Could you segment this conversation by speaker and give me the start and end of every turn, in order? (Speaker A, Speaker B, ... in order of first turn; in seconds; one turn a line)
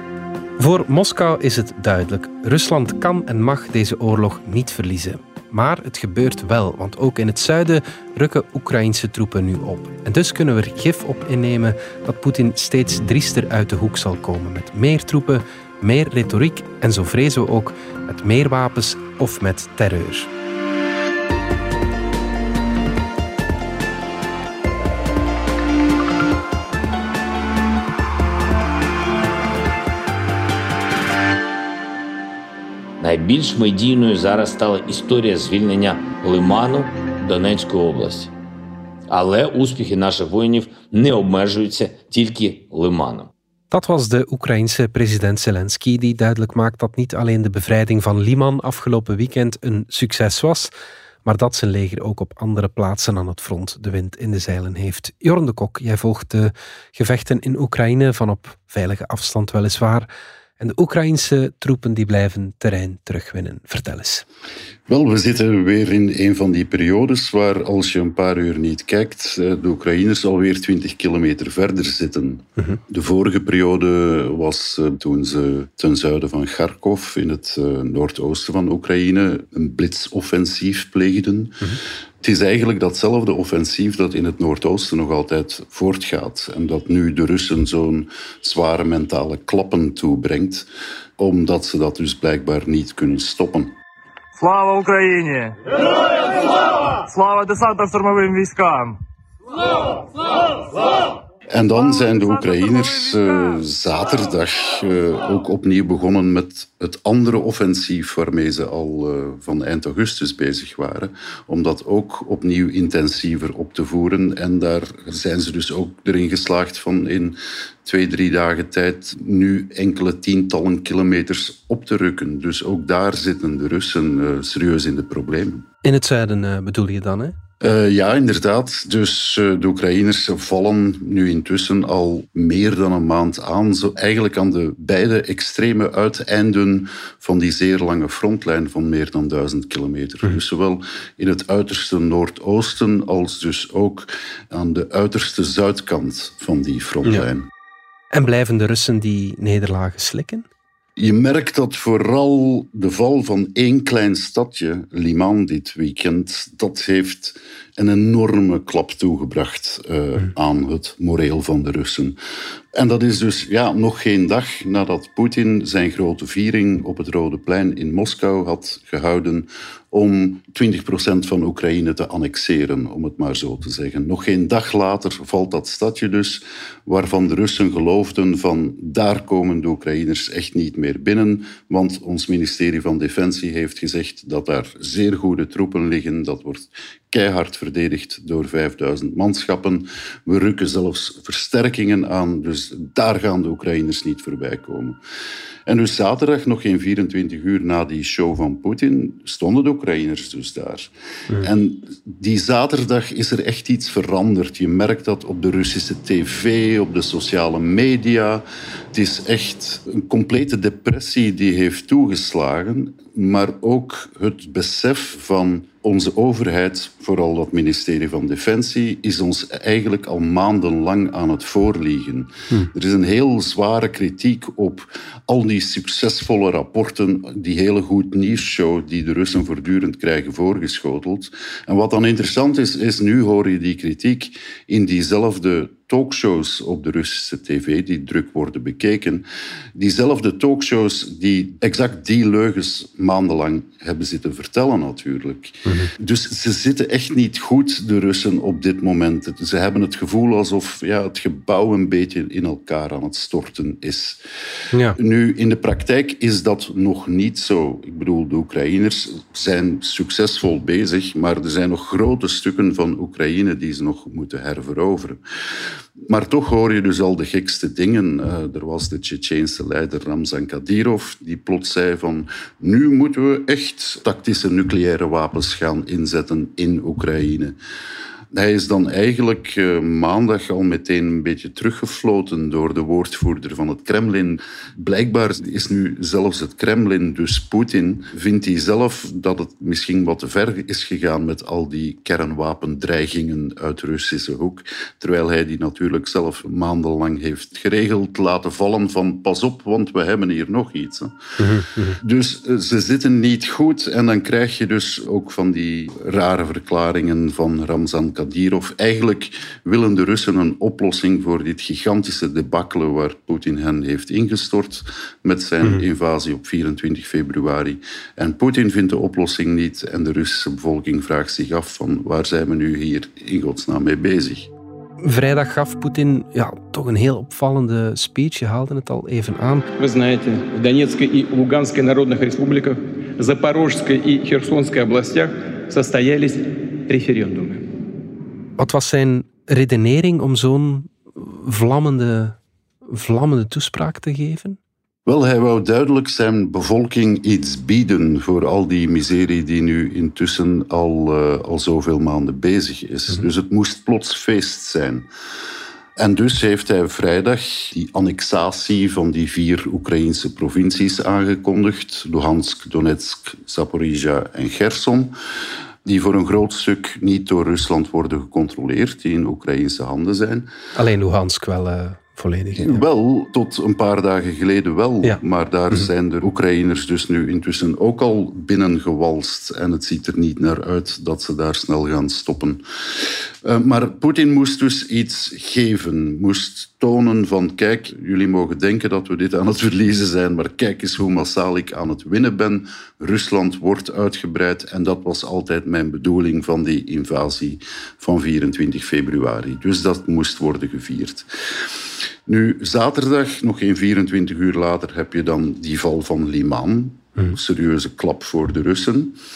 Speaker A: 0.6-20.3
Speaker B: 33.0-38.3
Speaker B: 39.1-43.3
Speaker A: 43.7-50.7
Speaker A: 51.2-60.1
Speaker A: 60.6-64.3
Speaker C: 64.9-90.7
Speaker C: 91.2-93.7
Speaker D: 94.3-99.0
Speaker C: 101.5-125.7
Speaker A: 125.8-127.4
Speaker C: 127.6-147.5
Speaker A: 148.1-150.5
Speaker C: 151.0-162.2
Speaker C: 162.7-195.0
Speaker C: 195.7-254.2
Speaker A: 245.7-245.9
Speaker C: 254.9-265.2
Speaker C: 266.0-277.6
Speaker C: 278.3-301.2
Speaker A: 301.4-302.0
Speaker C: 301.9-324.5
Speaker A: 325.0-329.7
Speaker E: 329.8-337.6
Speaker A: 338.6-344.6
Speaker C: 345.1-355.1
Speaker C: 356.0-365.1
Speaker C: 365.9-370.5
Speaker A: 370.8-372.8
Speaker C: 372.6-401.7
Speaker C: 402.3-409.2